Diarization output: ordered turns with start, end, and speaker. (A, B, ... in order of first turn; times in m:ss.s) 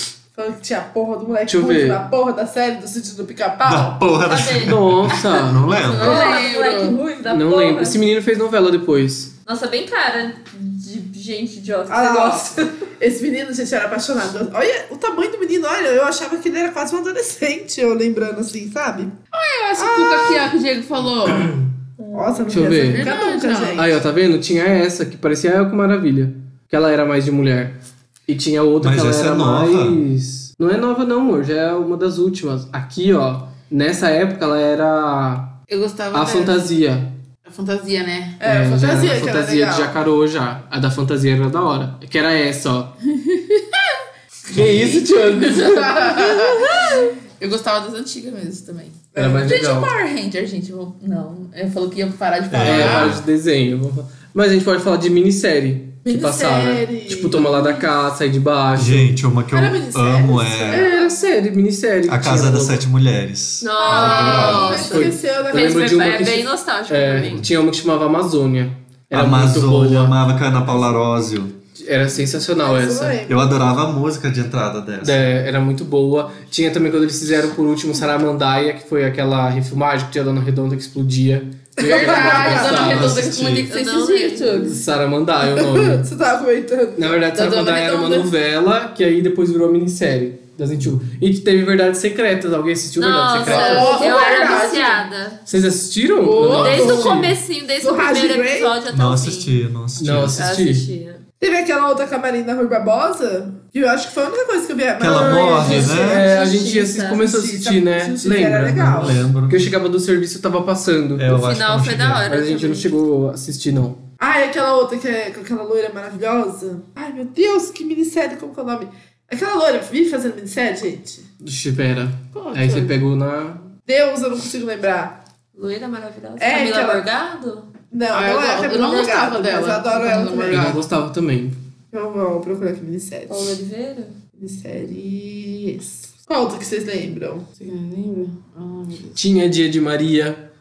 0:00.4-0:04.0 A
0:01.5-0:02.0 B
0:03.6-0:06.4 C
0:04.3-0:04.8 D
0:04.6-0:05.6 B
0:05.7-0:08.0 D
0:05.8-0:07.0 E
0:07.3-0:09.3 B
0:09.5-0:12.6 D
0:11.9-0:19.2 A
0:19.3-0:21.6 E
0:19.8-0:20.5 A
0:22.1-0:24.0 A
0:22.4-0:23.9 E
0:22.5-0:23.1 B
0:23.8-0:27.8 B
0:28.3-0:35.6 B
0:28.8-0:30.0 C
0:35.7-0:36.7 E
0:36.1-0:37.1 B
0:37.5-0:38.7 E
0:38.4-0:40.0 A
0:38.4-0:42.9 B
0:43.1-0:44.0 E
0:44.5-0:46.2 B
0:44.6-0:45.0 A
0:44.9-0:53.2 E
0:46.1-0:46.6 A
0:49.1-0:49.6 A
0:49.2-0:49.9 B
0:52.5-0:53.2 C
0:52.6-0:59.2 B
0:56.0-0:57.8 A
0:58.8-1:00.9 C
0:59.5-1:01.2 A
1:00.7-1:02.8 B
1:02.1-1:04.9 C
1:03.6-1:07.4 D
1:03.8-1:05.8 A
1:03.9-1:04.8 E
1:04.8-1:10.2 B
1:09.1-1:11.6 C
1:11.8-1:13.2 B
1:12.6-1:13.5 A
1:13.3-1:15.2 C
1:15.0-1:23.2 B
1:21.8-1:23.1 A
1:21.8-1:24.8 E
1:22.8-1:23.7 C
1:23.0-1:24.7 D
1:24.6-1:26.1 B
1:25.4-1:27.2 A
1:27.0-1:34.0 B
1:27.3-1:28.3 E
1:33.0-1:35.4 D
1:33.4-1:35.0 A
1:33.5-1:35.0 E
1:35.5-1:37.3 B
1:36.2-1:36.8 E
1:36.3-1:38.7 A
1:36.5-1:39.6 D
1:38.9-1:40.4 C
1:40.0-1:40.9 B
1:40.4-1:41.2 D
1:41.4-1:46.3 A
1:45.0-1:46.3 C
1:45.1-1:51.4 B
1:45.7-1:47.2 D
1:47.2-1:49.2 A
1:48.8-1:49.7 C
1:51.2-1:52.2 C
1:51.3-1:52.9 D
1:52.3-1:54.0 B
1:54.2-2:01.3 A
2:01.4-2:03.7 B
2:02.3-2:03.0 E
2:03.9-2:05.2 A
2:05.6-2:07.7 D
2:06.4-2:07.0 A
2:07.9-2:10.8 A
2:08.1-2:10.8 E
2:10.5-2:11.6 B
2:11.9-2:13.5 A
2:13.3-2:14.2 D
2:14.4-2:17.5 A
2:17.6-2:19.2 E
2:19.2-2:20.4 B